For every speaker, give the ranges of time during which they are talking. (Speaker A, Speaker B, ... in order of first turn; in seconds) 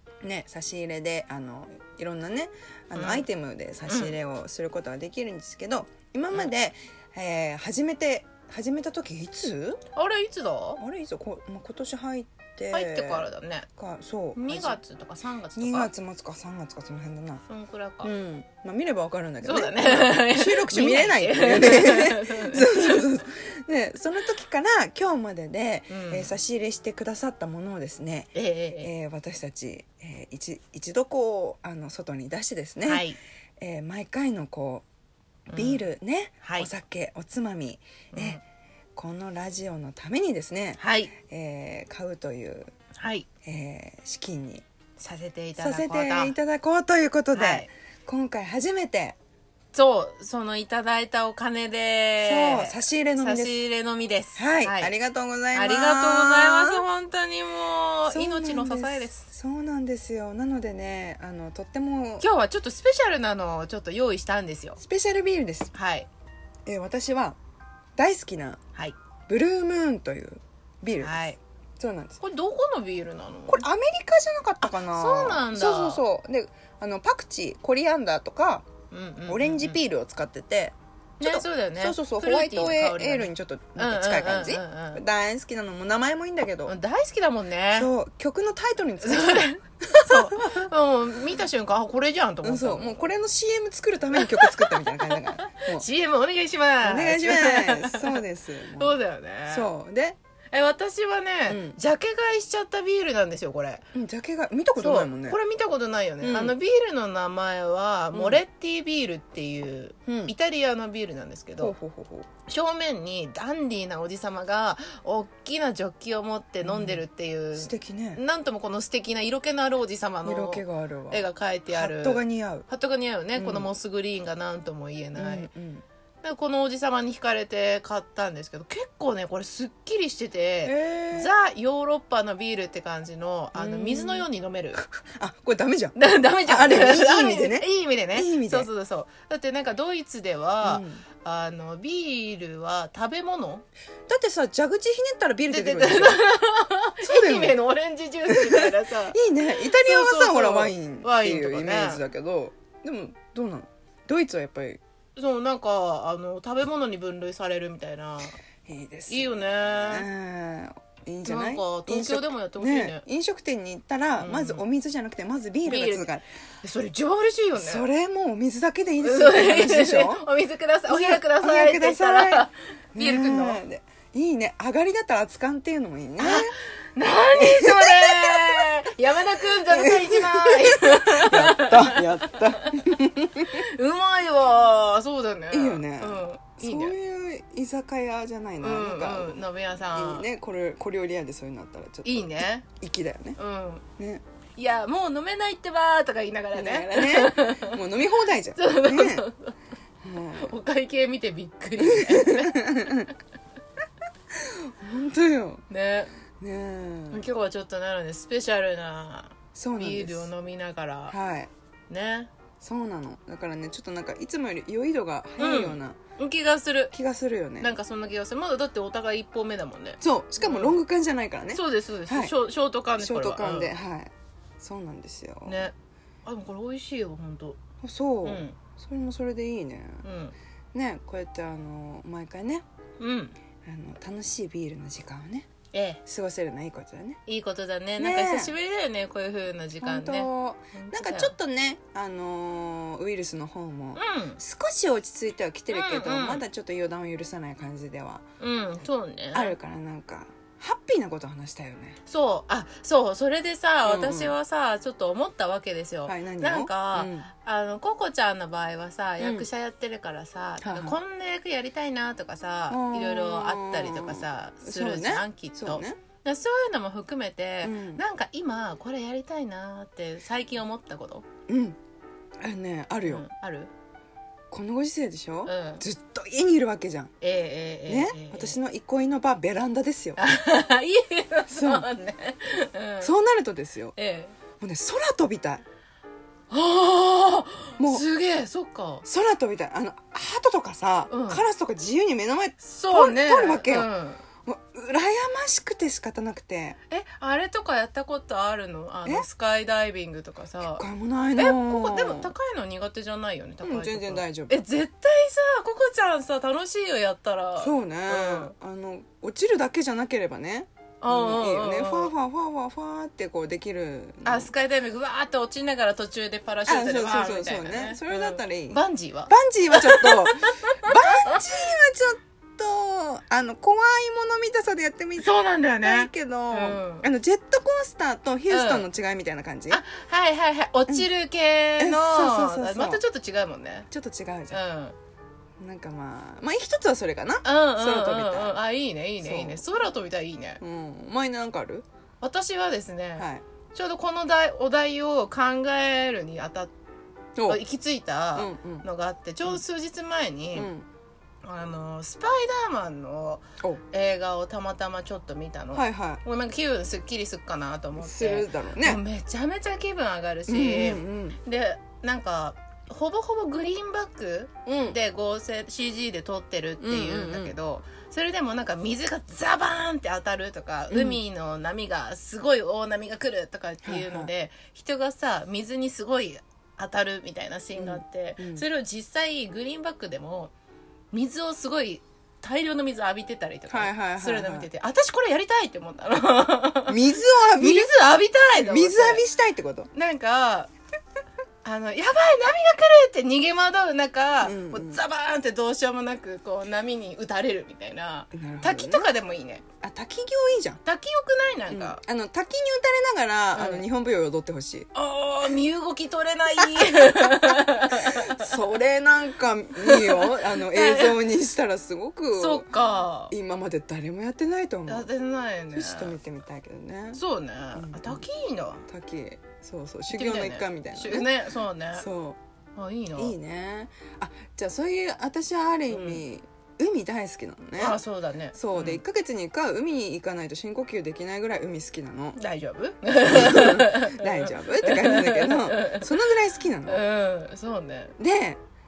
Speaker A: 0.2-9.8, 10.8-14.8, 15.6-17.4, 18.0-34.8, 35.5-38.4, 39.0-42.7, 43.4-44.6, 45.6-49.1, 52.2-53.5, 54.4-56.8, 58.1-62.3, 64.8-65.7, 66.7-67.4, 68.0-68.6, 69.3-71.2, 71.8-72.2, 73.5-78.7, 79.3-86.7, 87.7-90.7, 92.4-95.8, 96.8-100.2, 101.5-101.8, 103.9-105.4, 106.2-106.5, 108.1-108.4, 110.1-110.3, 111.6-112.3, 116.6-117.0, 117.5-118.2, 120.2-122.7, 123.3-123.7, 125.2-125.8, 130.6-131.3, 133.5-138.7, 140.6-141.0, 144.1-146.2, 147.0-147.6, 148.3-154.8, 158.7-166.2, 167.6-170.3, 170.9-176.6, 177.3-178.7, 179.7-183.7, 185.5-193.4, 194.0-194.2, 196.5-199.2, 200.0-200.6, 201.8-203.1, 204.3-205.6, 206.4-207.3, 209.5-210.3, 211.1-211.5, 212.6-216.0, 216.9-217.7, 220.0-222.3, 223.0-225.7, 227.8-230.0, 230.7-232.6, 233.6-235.5, 236.1-237.2, 238.0-238.5, 239.8-248.2, 249.3-252.0, 253.8-254.4, 256.1-257.3, 259.2-259.5, 260.6-261.0, 262.7-266.0, 267.6-268.0, 271.5-271.8, 272.4-273.2, 274.5-277.1, 277.9-280.2, 281.5-281.9, 283.0-283.9, 284.6-285.6, 287.8-288.1, 289.1-293.9, 294.4-296.8, 300.6-302.3, 303.6-304.6, 307.6-314.5, 316.6-329.8, 331.8-333.0, 333.9-334.6, 335.6-338.6, 339.2-339.6, 340.6-341.9, 343.2-343.4, 347.4-347.6, 348.4-348.9, 350.5-350.9, 355.7-356.2, 358.0-359.0, 360.5-361.4, 364.6-365.0, 366.8-367.6, 370.9-371.2, 373.8-374.3, 377.8-378.7, 383.7-384.7, 386.9-389.9, 394.4-395.0, 398.3-399.1, 399.8-400.8, 401.7-404.9, 406.8-412.7, 413.3-415.1, 415.7-417.2, 417.7-418.2, 418.9-421.3, 421.9-422.4, 423.1-428.0, 428.5-432.4, 433.3-437.0, 438.2-438.6
Speaker B: 2.9-3.3, 3.9-4.2, 9.9-10.8, 12.7-13.7, 14.3-15.9, 17.5-18.1, 19.4-23.2, 25.9-26.3, 28.3-28.9, 32.8-33.2, 35.5-35.8, 36.4-36.7, 38.1-38.4, 40.8-41.1, 43.0-43.3, 45.0-46.3, 47.3-47.7, 49.7-54.9, 55.5-59.3, 62.2-64.8, 65.7-66.1, 71.0-71.4, 72.2-73.6, 74.6-76.0, 78.9-79.8, 81.2-85.0, 86.7-87.9, 89.0-93.0, 94.1-98.2, 98.7-99.7, 100.5-103.8, 104.8-111.7, 112.5-125.5, 126.2-134.8, 135.9-143.7, 145.5-152.0, 155.2-158.4, 159.1-160.1, 161.2-163.0, 164.2-164.6, 165.7-166.1, 166.6-167.8, 169.0-173.6, 176.2-182.9, 183.5-186.9, 188.6-190.3, 192.0-192.7, 193.4-193.8, 194.6-197.8, 198.5-199.6, 200.4-202.8, 205.7-206.1, 207.1-211.2, 211.9-212.3, 215.4-216.9, 217.6-220.8, 221.5-223.7, 225.4-225.7, 226.2-227.6, 228.2-228.6, 230.0-230.3, 233.0-233.3, 235.7-236.0, 237.2-241.3, 244.0-244.4, 245.7-246.4, 248.4-249.6, 252.1-271.2, 273.1-273.7, 275.5-275.8, 277.2-278.6, 280.2-283.1, 283.9-284.3, 286.5-289.1, 291.1-291.4, 292.6-294.2, 296.9-300.8, 301.4-308.5, 311.0-312.1, 314.2-321.4, 325.2-327.1, 328.5-328.9, 329.7-333.9, 334.5-334.9, 337.4-340.6, 342.2-346.7, 347.5-350.7, 351.4-380.5, 381.1-387.0, 387.6-389.2, 389.9-390.7, 391.6-399.6, 400.8-402.0, 403.5-403.9, 404.9-408.6, 409.8-411.2, 412.4-413.3, 414.9-416.2, 417.1-418.8, 420.1-422.1, 422.8-423.4, 425.9-426.2, 427.8-429.0, 432.4-436.1, 436.9-438.1